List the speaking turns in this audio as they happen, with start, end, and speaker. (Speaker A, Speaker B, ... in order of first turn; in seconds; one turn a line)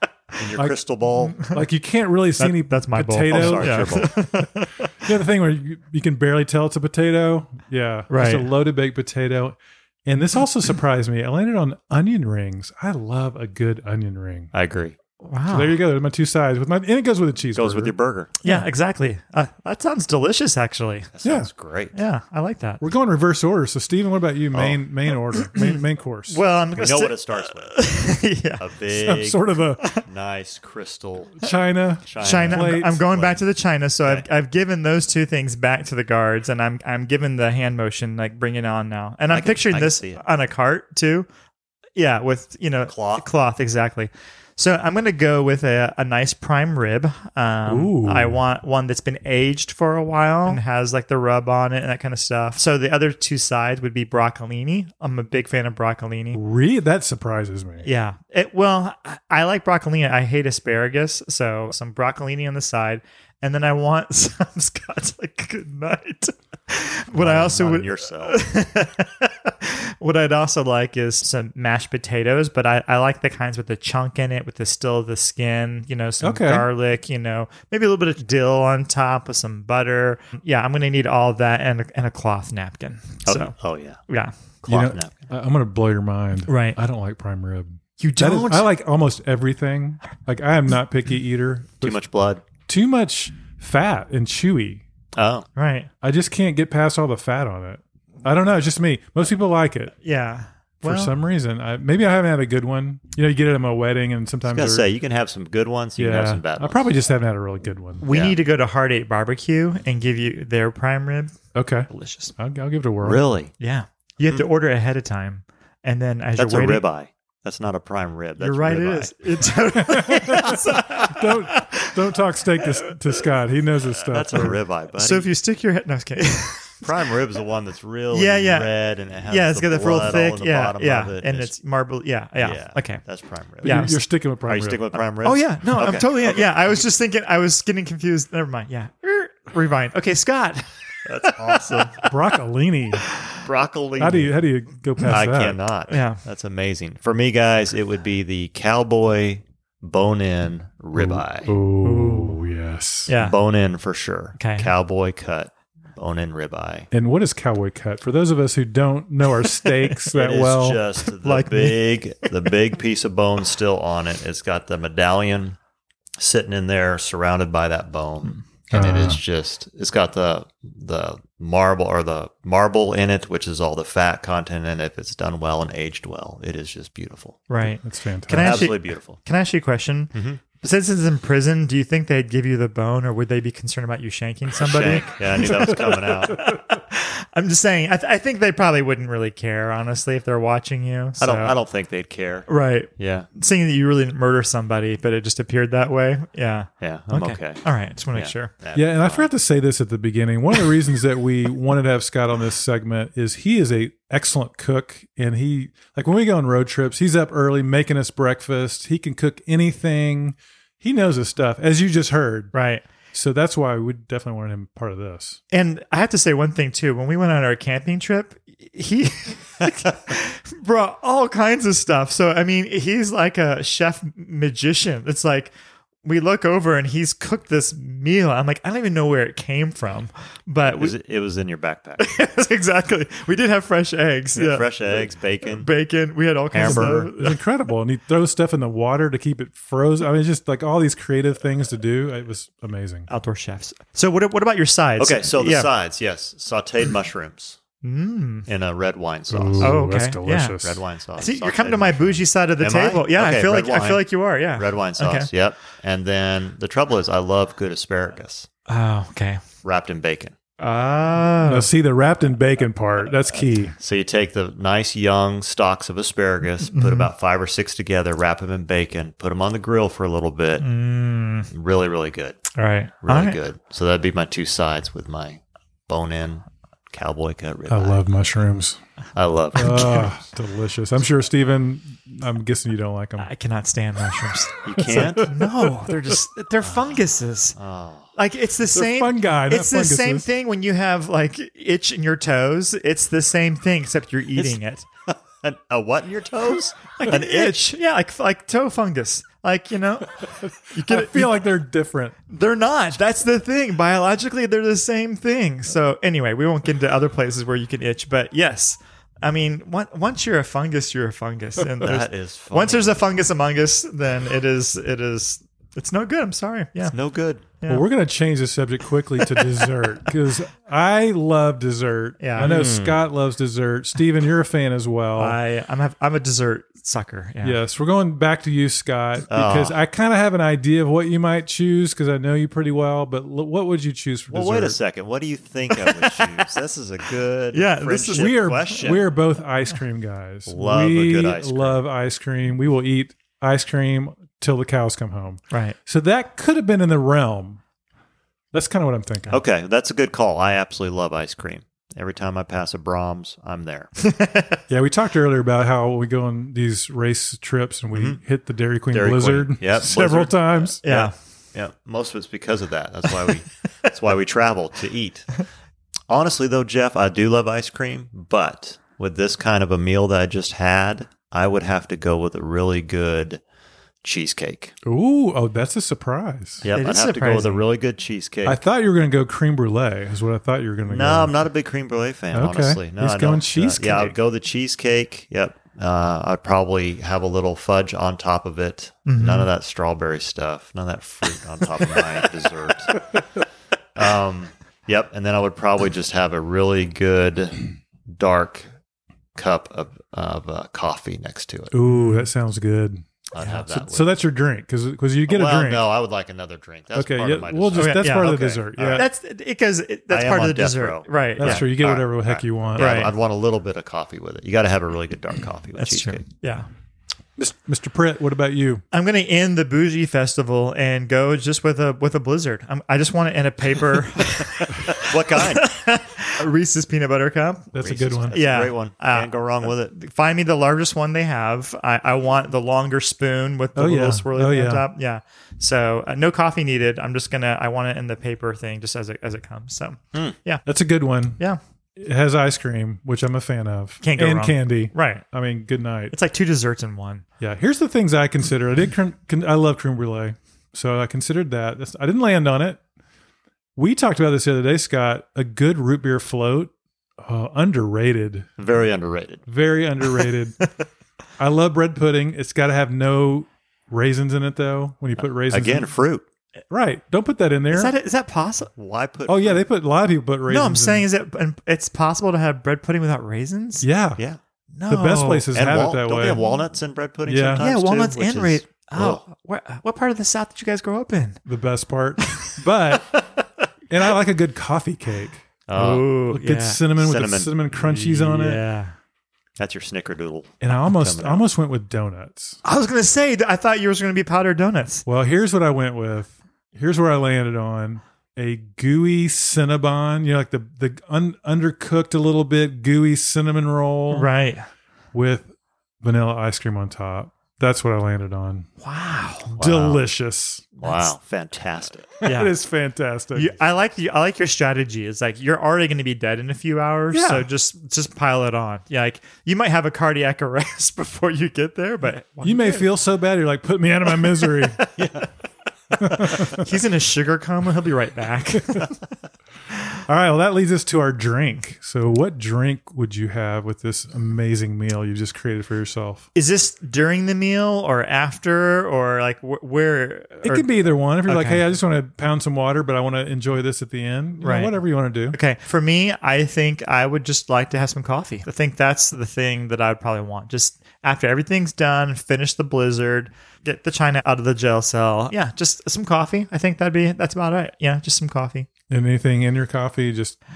Speaker A: 0.4-1.5
Speaker B: 1.3-1.6
Speaker C: 1.4-4.1
Speaker B: 2.4-4.9
Speaker A: 3.3-4.2
Speaker C: 5.0-14.5
Speaker B: 8.1-8.5
Speaker A: 14.5-15.0
Speaker B: 15.2-15.8
Speaker C: 15.5-18.7
Speaker A: 17.6-18.3
Speaker B: 18.4-21.1
Speaker A: 21.1-22.0
Speaker C: 21.2-21.5
Speaker B: 21.9-22.8
Speaker C: 22.8-26.4
Speaker A: 24.5-24.8
Speaker B: 25.5-28.6
Speaker A: 26.8-27.8
Speaker A: 28.6-29.4
Speaker C: 29.0-29.9
Speaker A: 30.1-31.4
Speaker C: 31.4-33.0
Speaker A: 32.0-33.4
Speaker B: 32.2-41.3
Speaker A: 39.3-40.2
Speaker B: 42.0-56.4
Speaker A: 42.9-43.3
Speaker C: 47.7-48.4
Speaker C: 56.3-57.9
Speaker B: 57.8-83.6
Speaker A: 67.1-68.4
Speaker C: 76.2-76.7
Speaker A: 83.3-84.0
Speaker B: 84.1-84.3
Speaker A: 84.6-85.3
Speaker C: 84.7-92.0
Speaker B: 86.5-86.8
Speaker B: 88.0-88.7
Speaker A: 91.8-92.4
Speaker C: 92.7-94.8
Speaker A: 95.2-95.5
Speaker B: 95.6-95.9
Speaker C: 96.0-99.9
Speaker B: 100.0-101.1
Speaker C: 100.8-104.9
Speaker A: 104.5-106.8
Speaker C: 106.0-108.0
Speaker B: 108.0-111.4
Speaker A: 108.1-108.4
Speaker C: 111.5-113.2
Speaker B: 111.9-112.3
Speaker A: 113.0-113.5
Speaker B: 113.6-116.8
Speaker A: 116.4-119.1
Speaker B: 118.4-122.0
Speaker C: 119.8-124.6
Speaker B: 122.6-123.0
Speaker A: 124.0-125.3
Speaker B: 124.4-126.9
Speaker A: 126.8-131.5
Speaker B: 128.1-133.1
Speaker A: 132.4-136.6
Speaker B: 133.6-134.0
Speaker C: 133.6-135.0
Speaker B: 135.2-140.7
Speaker A: 141.1-142.0
Speaker B: 141.2-142.1
Speaker C: 142.1-143.1
Speaker A: 143.4-144.3
Speaker C: 144.0-145.6
Speaker A: 145.1-151.5
Speaker B: 145.9-146.2
Speaker C: 150.9-153.1
Speaker B: 151.8-152.4
Speaker B: 153.1-153.4
Speaker A: 153.2-156.9
Speaker B: 154.4-154.7
Speaker C: 156.9-160.8
Speaker B: 159.4-160.0
Speaker A: 160.1-165.6
Speaker B: 161.1-162.5
Speaker A: 166.2-177.5
Speaker C: 168.7-169.2
Speaker B: 177.5-191.5
Speaker C: 177.8-178.7
Speaker A: 178.3-179.2
Speaker A: 180.1-180.4
Speaker A: 184.6-186.4
Speaker A: 191.2-193.3
Speaker B: 192.5-198.5
Speaker A: 196.8-199.3
Speaker C: 198.7-212.5
Speaker B: 212.5-212.8
Speaker C: 213.1-215.4
Speaker B: 215.5-225.5
Speaker B: 226.0-230.9
Speaker A: 230.7-232.0
Speaker B: 232.0-237.4
Speaker A: 234.3-235.7
Speaker A: 236.5-237.1
Speaker C: 236.6-243.1
Speaker B: 243.1-245.7
Speaker A: 245.0-247.6
Speaker B: 247.8-248.5
Speaker A: 248.5-249.8
Speaker C: 249.3-250.8
Speaker B: 249.6-250.6
Speaker A: 250.6-258.5
Speaker B: 251.2-255.3
Speaker B: 258.7-259.4
Speaker A: 259.6-260.4
Speaker B: 260.6-261.7
Speaker C: 261.4-263.8
Speaker A: 263.8-270.7
Speaker B: 266.7-267.1
Speaker B: 270.6-271.5
Speaker A: 271.5-272.4
Speaker B: 272.6-273.4
Speaker A: 273.0-278.0
Speaker C: 277.7-278.8
Speaker A: 279.2-280.1
Speaker C: 279.6-283.3
Speaker B: 283.2-287.6
Speaker A: 284.6-285.3
Speaker C: 284.8-286.1
Speaker A: 286.6-287.0
Speaker A: 287.6-288.1
Speaker B: 288.2-294.9
Speaker C: 288.7-290.3
Speaker A: 295.1-297.6
Speaker B: 297.0-301.5
Speaker C: 300.4-302.1
Speaker B: 302.3-317.9
Speaker A: 311.8-313.0
Speaker A: 316.8-317.5
Speaker C: 317.7-325.4
Speaker B: 322.2-322.7
Speaker A: 322.4-323.0
Speaker B: 325.2-327.6
Speaker C: 327.4-334.8
Speaker A: 329.3-329.8
Speaker A: 334.3-339.1
Speaker B: 335.9-336.4
Speaker B: 337.5-338.9
Speaker C: 338.1-347.6
Speaker A: 340.5-341.8
Speaker B: 345.5-345.8
Speaker C: 348.5-349.4
Speaker A: 349.3-353.9
Speaker B: 354.0-354.6
Speaker C: 354.7-360.8
Speaker A: 357.9-358.2
Speaker A: 358.9-365.4
Speaker B: 360.8-361.1
Speaker A: 366.1-373.4
Speaker A: 374.0-374.7
Speaker C: 374.9-376.7
Speaker A: 376.6-378.6
Speaker B: 376.7-377.7
Speaker C: 378.4-381.4
Speaker A: 380.9-393.0
Speaker C: 382.3-384.2
Speaker B: 389.1-389.5
Speaker A: 394.0-398.7
Speaker A: 399.4-401.7
Speaker C: 401.7-405.9
Speaker B: 401.9-402.3
Speaker A: 403.3-404.1
Speaker A: 405.3-409.1
Speaker C: 406.9-409.1
Speaker B: 407.8-411.7
Speaker A: 410.1-416.2
Speaker C: 411.4-413.1
Speaker B: 412.8-413.1
Speaker B: 415.8-416.7
Speaker C: 417.4-418.8
Speaker B: 418.9-427.7
Speaker A: 425.0-425.7
Speaker C: 427.7-428.4
Speaker A: 427.8-429.9
Speaker B: 428.3-440.7
Speaker C: 433.8-434.9
Speaker C: 440.7-441.4
Speaker C: 442.0-446.1
Speaker B: 444.0-445.2
Speaker B: 446.1-447.2
Speaker C: 447.4-452.8
Speaker C: 453.8-458.5
Speaker A: 458.6-459.4
Speaker C: 459.5-460.6
Speaker C: 461.4-465.9
Speaker A: 465.4-466.3
Speaker C: 466.7-467.9
Speaker B: 467.7-468.7
Speaker A: 468.8-469.6
Speaker C: 469.3-471.1
Speaker B: 470.5-473.9
Speaker C: 473.8-474.2
Speaker B: 474.7-475.5
Speaker C: 474.9-476.4
Speaker A: 475.5-479.2
Speaker B: 476.2-476.6
Speaker C: 477.3-477.6
Speaker B: 477.6-481.4
Speaker C: 481.5-483.2
Speaker B: 482.2-482.6
Speaker C: 483.9-488.6
Speaker A: 485.7-486.2
Speaker B: 485.8-486.9
Speaker A: 487.0-487.7
Speaker B: 487.9-488.9
Speaker A: 489.6-491.4
Speaker C: 490.6-492.6
Speaker B: 492.6-495.1
Speaker C: 495.1-504.3
Speaker B: 504.1-504.7
Speaker C: 505.1-505.5
Speaker C: 506.0-508.7
Speaker B: 508.8-509.6
Speaker A: 509.6-510.1
Speaker C: 509.6-510.6
Speaker A: 510.8-512.2
Speaker B: 510.8-511.1
Speaker C: 512.2-513.5
Speaker B: 512.2-512.6
Speaker B: 513.4-522.9
Speaker C: 517.1-517.5
Speaker C: 522.4-524.8
Speaker B: 524.3-524.7
Speaker A: 525.0-525.3
Speaker C: 526.0-526.7
Speaker B: 526.0-529.0
Speaker C: 530.1-536.3
Speaker B: 536.4-541.6
Speaker C: 540.4-545.4
Speaker B: 544.4-544.8
Speaker B: 545.3-558.7
Speaker C: 558.9-560.4